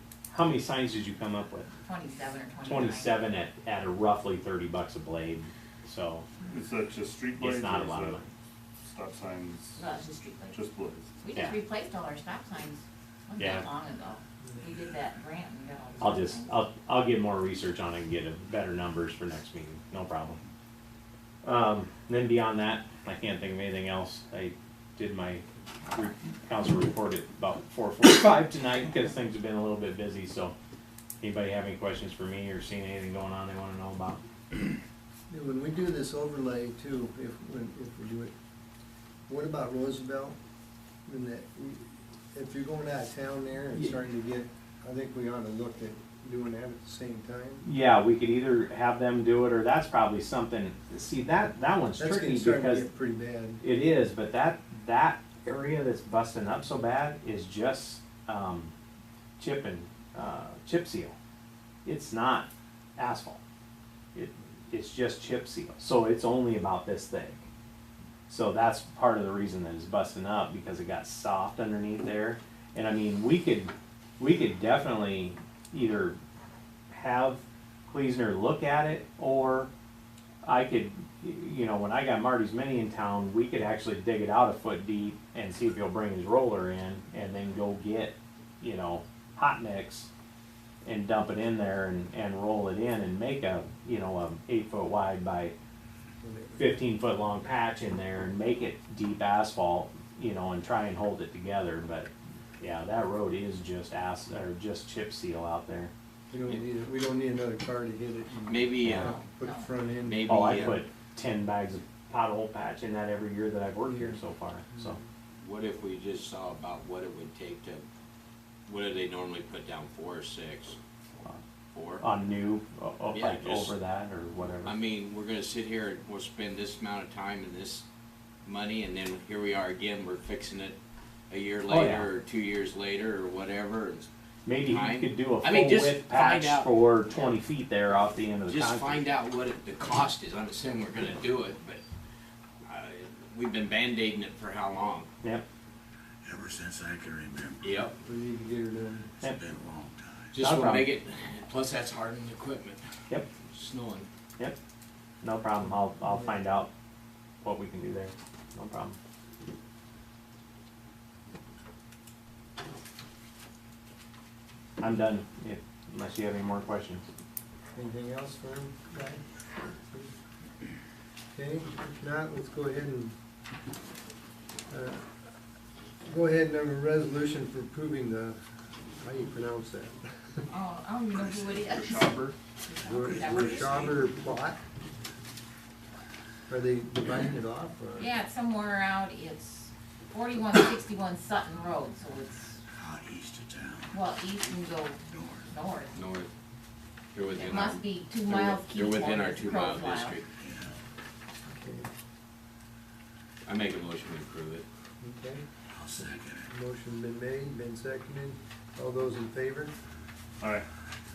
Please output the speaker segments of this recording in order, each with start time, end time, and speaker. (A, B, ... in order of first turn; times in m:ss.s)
0:00.3-0:01.7 A
0:01.8-0:03.2 B
0:02.6-0:06.2 A
0:06.4-0:08.2 C
0:07.4-0:08.3 A
0:08.8-0:09.9 C
0:09.8-0:10.6 B
0:10.4-0:11.1 C
0:11.2-0:16.5 B
0:13.4-0:13.7 A
0:16.0-0:20.4 A
0:21.4-0:30.5 A
0:31.2-0:34.2 A
0:35.3-0:38.3 D
0:39.3-0:40.4 D
0:41.1-0:47.6 D
0:47.6-0:52.9 A
0:52.0-0:53.6 D
0:53.6-0:58.7 A
0:59.4-1:01.1 A
1:01.8-1:03.4 A
1:04.1-1:07.4 A
1:08.3-1:16.2 A
1:16.9-1:19.7 A
1:20.4-1:30.1 A
1:30.8-1:35.5 A
1:36.2-1:36.6 D
1:36.6-1:45.9 A
1:46.3-1:50.8 D
1:48.4-1:49.1 E
1:48.8-1:49.1 A
1:49.0-1:49.8 B
1:50.0-1:50.8 E
1:50.2-1:55.0 A
1:53.8-1:54.2 D
1:54.7-1:55.0 D
1:55.4-1:57.8 E
1:58.7-2:00.8 E
2:01.7-2:02.0 E
2:02.0-2:04.7 A
2:03.1-2:03.7 E
2:04.6-2:07.8 E
2:08.4-2:10.8 E
2:11.3-2:14.1 E
2:11.7-2:12.1 A
2:14.4-2:19.0 A
2:14.6-2:17.2 E
2:18.4-2:21.8 E
2:22.6-2:25.1 E
2:26.2-2:27.7 F
2:27.6-2:27.9 E
2:28.0-2:29.1 D
2:29.2-2:30.4 F
2:30.3-2:32.8 E
2:30.4-2:30.9 A
2:33.5-2:34.1 E
2:35.2-2:36.7 A
2:35.6-2:36.4 D
2:37.4-2:39.0 A
2:44.8-2:47.1 A
2:47.7-2:49.2 D
2:51.3-2:53.1 D
2:54.7-2:55.0 D
2:56.0-2:58.4 D
2:59.0-3:00.0 D
3:00.5-3:02.1 B
3:01.2-3:01.5 F
3:01.6-3:02.4 C
3:02.6-3:03.8 B
3:02.8-3:04.6 D
3:02.8-3:04.2 F
3:06.5-3:08.1 D
3:08.0-3:12.6 B
3:12.7-3:14.0 F
3:13.9-3:16.0 B
3:15.0-3:15.5 F
3:15.9-3:16.3 E
3:17.1-3:20.3 E
3:17.4-3:20.2 B
3:20.4-3:20.8 F
3:21.4-3:21.9 D
3:23.4-3:24.6 E
3:25.0-3:25.4 D
3:25.7-3:26.5 F
3:26.5-3:29.7 D
3:30.4-3:30.6 C